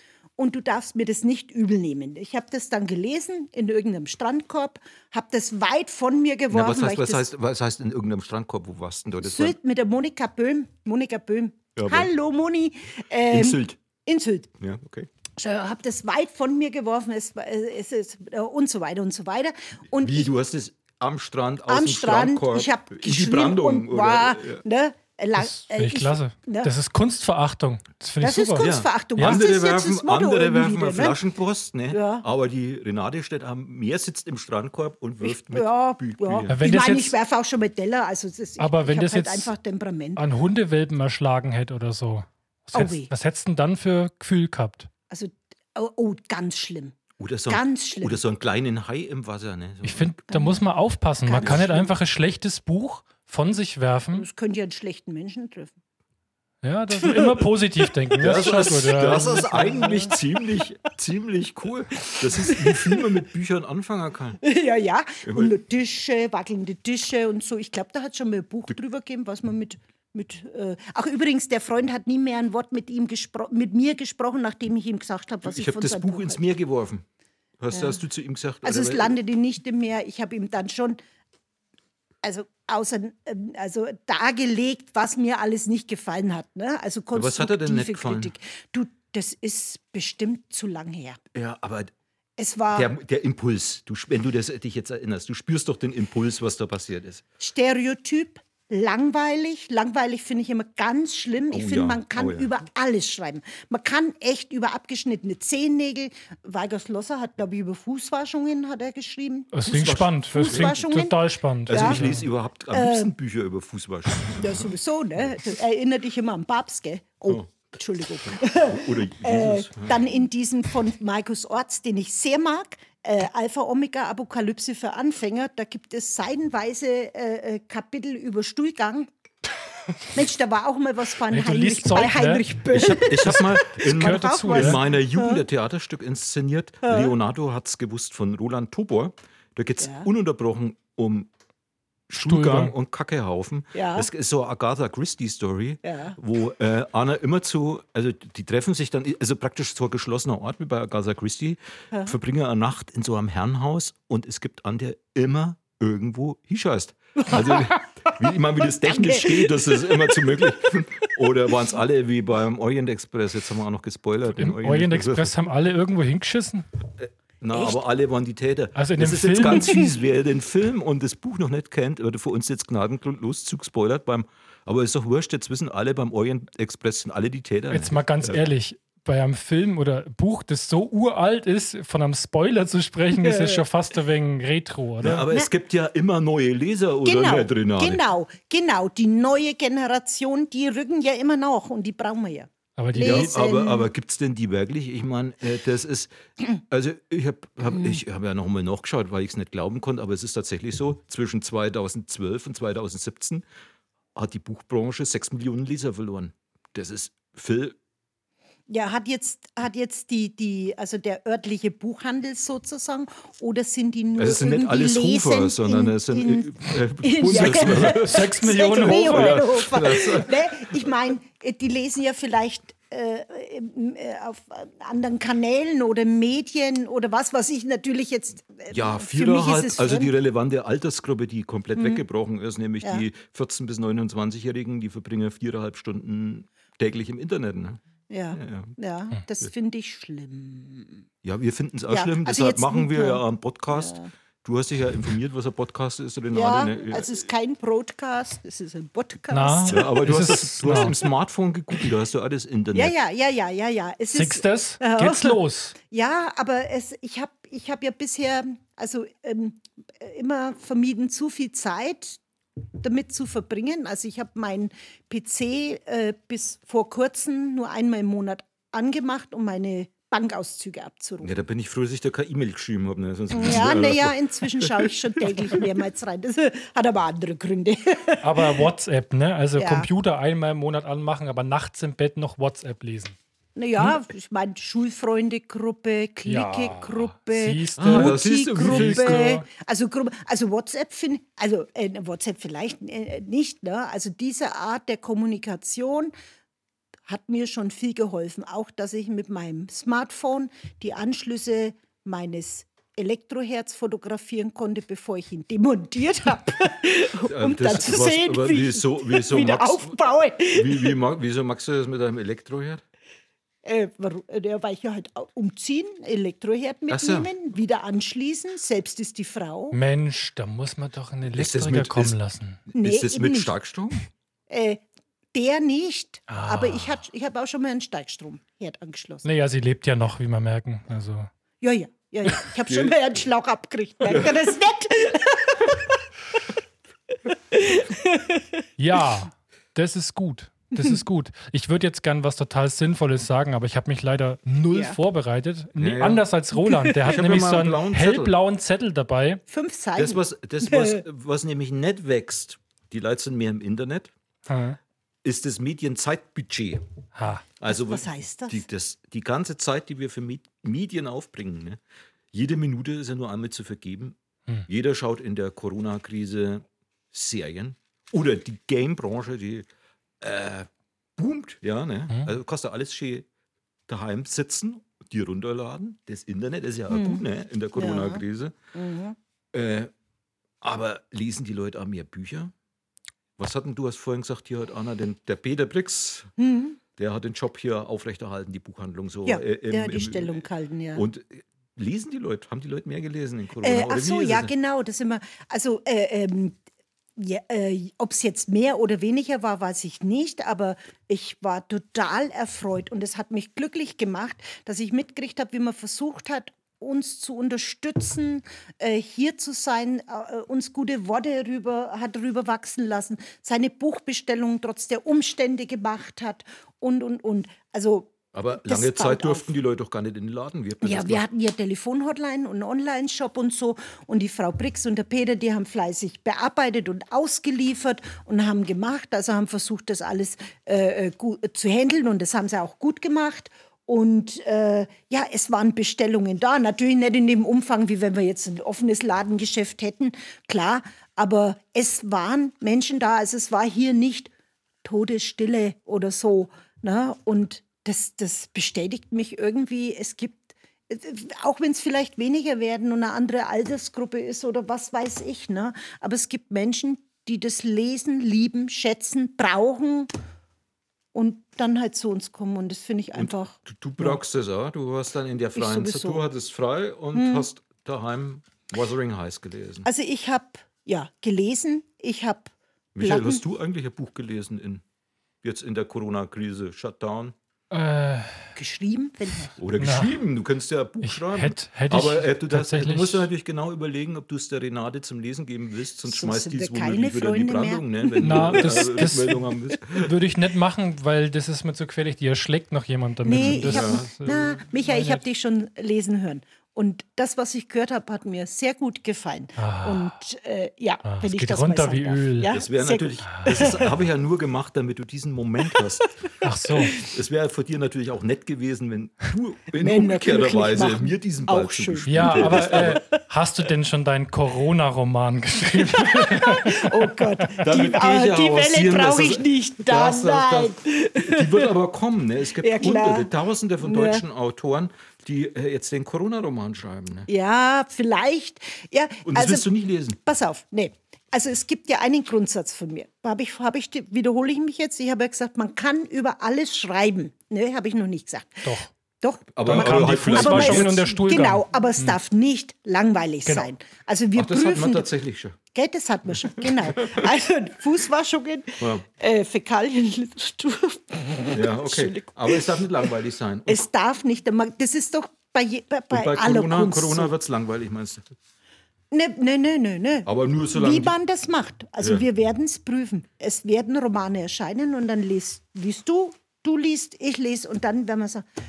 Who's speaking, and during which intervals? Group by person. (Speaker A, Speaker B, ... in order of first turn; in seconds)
Speaker A: 0.4-7.3, 9.2-14.5, 15.4-20.3, 21.7-26.7, 28.2-31.2, 31.9-32.2, 35.2-40.2, 42.7-43.1, 45.1-47.0, 47.5-48.2, 50.3-50.6, 51.2-51.9, 54.1-55.8, 56.9-57.9, 59.1-60.1, 62.1-63.0, 64.4-76.4, 78.6-81.0, 82.2-91.2, 92.4-92.9, 97.4-109.5, 110.3-112.0, 112.7-113.1, 114.3-129.1, 130.1-135.4, 136.8-137.1, 139.8-140.1, 143.7-144.1, 145.8-146.2, 157.2-158.1, 158.8-160.2, 167.5-167.8, 183.2-183.6, 187.0-193.9, 208.7-230.1, 231.8-232.0, 238.1-241.0, 241.9-244.1, 246.3-249.9, 252.7-262.2, 262.8-271.3, 273.3-278.7, 279.6-279.9, 283.6-296.1, 297.1-310.9, 313.6-319.8, 322.7-323.5, 324.5-329.2, 331.6-336.0, 337.5-338.5, 344.7-345.0, 346.6-346.9, 349.5-351.0, 357.7-358.6, 376.9-377.2, 377.7-378.2, 378.7-379.1, 386.4-386.8, 389.2-391.1, 393.6-396.6, 397.2-419.5, 420.8-444.3, 444.8-460.1, 461.1-464.2, 465.5-466.2, 467.1-467.5, 469.8-473.4, 478.6-479.5, 486.1-489.1, 493.2-503.8, 509.8-513.2, 515.8-521.7, 522.6-523.3, 523.8-524.2, 527.3-529.7, 530.2-545.1, 545.7-552.9, 553.7-557.3, 559.1-568.4
Speaker B: 6.5-9.6, 11.8-12.1, 13.3-13.8, 14.6-15.1, 20.0-24.6, 28.6-36.5, 47.2-50.1, 58.2-64.4, 65.2-65.5, 75.4-77.0, 77.6-79.2, 87.1-88.3, 91.3-91.9, 92.7-97.2, 101.5-102.5, 109.6-110.8, 111.7-114.7, 118.2-120.0, 132.7-141.3, 142.1-165.3, 167.0-178.4, 185.0-188.0, 193.0-203.4, 204.1-207.8, 214.2-220.9, 228.7-237.8, 238.3-238.8, 241.2-247.1, 249.7-252.9, 271.2-275.6, 287.8-289.4, 307.2-312.8, 316.9-317.3, 321.3-322.1, 322.7-324.0, 332.7-333.1, 334.1-334.3, 345.8-346.2, 347.0-348.3, 350.0-354.1, 355.2-356.9, 357.6-361.8, 362.3-369.7, 370.2-373.3, 373.9-378.6, 379.5-379.9, 380.6-382.5, 383.4-386.3, 386.9-394.5, 418.3-421.2, 463.1-469.9, 472.9-474.8, 475.4-477.3, 479.6-490.1, 493.3-494.4, 502.5-506.1, 506.9-513.0, 517.6-527.3, 529.2-530.2, 539.5-541.1, 544.3-545.6, 546.6-547.2, 551.5-553.8, 556.1-558.2, 560.2-561.1
Speaker C: 25.4-29.4, 36.5-37.1, 38.6-39.5, 40.1-44.9, 49.8-54.2, 56.6-59.8, 109.5-112.2, 131.3-134.8, 142.2-142.7, 164.3-166.7, 168.8-169.8, 177.7-185.2, 192.8-193.3, 217.4-219.5, 249.3-251.0, 254.1-255.7, 278.2-283.1, 286.2-289.4, 319.7-322.6, 326.3-327.0, 329.2-331.3, 338.8-349.4, 354.5-354.8, 357.1-357.4, 477.7-478.5, 479.8-480.1, 481.0-483.3, 488.2-495.2, 499.6-500.1, 501.0-502.5, 503.3-503.7, 506.4-507.0, 512.1-517.6, 539.6-542.2